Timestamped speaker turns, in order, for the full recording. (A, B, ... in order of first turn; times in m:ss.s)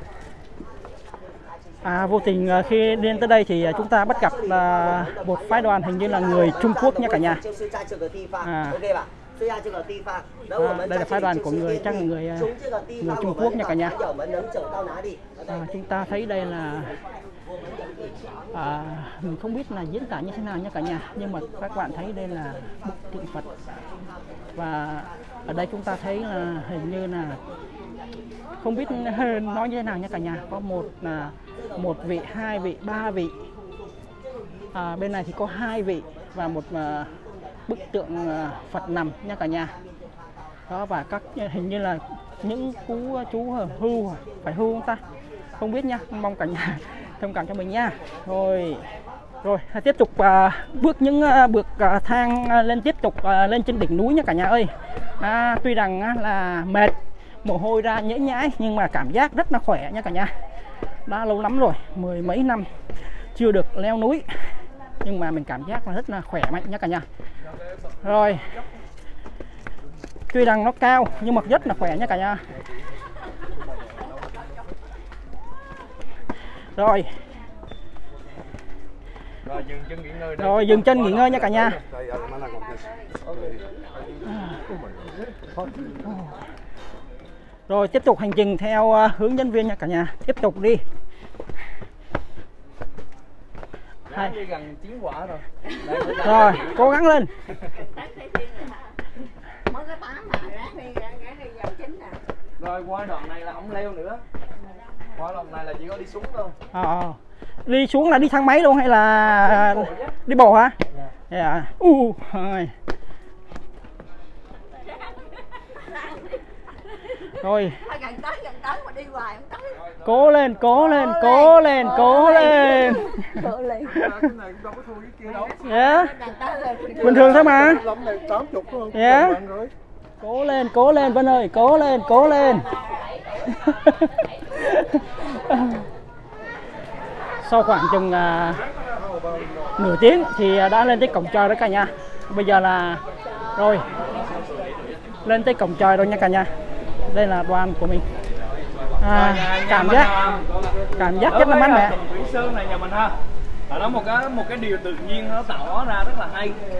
0:01.8-0:07.4 A
0:08.4-0:08.9 A
0:10.5-0:14.0 A
0:15.4-0:17.0 A
0:18.5-0:23.5 A
0:24.6-0:27.4 A
0:28.6-0:33.3 A
0:34.7-0:37.2 A
0:37.7-0:39.7 A
0:40.7-0:45.0 A
0:45.6-0:48.8 A
0:49.4-1:00.3 A
1:01.1-1:02.7 A
1:03.3-1:07.0 A
1:08.0-1:08.5 A
1:10.3-1:12.4 A
1:16.8-1:17.1 A
1:19.4-1:21.7 B
1:20.4-1:21.8 A
1:23.3-1:26.0 C
1:24.2-1:24.6 A
1:26.0-1:26.4 A
1:27.7-1:30.8 A
1:34.1-1:37.0 B
1:36.2-1:37.3 A
1:37.6-1:39.0 D
1:39.6-1:42.2 D
1:42.6-1:44.2 B
1:45.1-1:46.6 B
1:46.7-1:50.8 A
1:49.4-1:50.1 B
1:51.3-1:52.7 A
1:54.8-1:57.1 D
1:57.4-1:57.8 A
1:57.8-1:59.8 D
2:00.0-2:04.1 A
2:00.8-2:04.2 D
2:03.9-2:05.6 C
2:05.2-2:07.6 D
2:05.6-2:06.2 A
2:06.9-2:09.7 C
2:07.0-2:07.8 A
2:08.9-2:09.4 A
2:10.2-2:12.7 A
2:12.8-2:13.1 D
2:13.5-2:15.8 A
2:17.4-2:18.6 A
2:19.8-2:23.0 A
2:23.6-2:23.9 A
2:24.0-2:25.2 B
2:25.2-2:26.5 A
2:27.1-2:28.0 A
2:28.4-2:33.2 B
2:29.0-2:30.1 A
2:31.0-2:32.0 A
2:33.7-2:36.6 B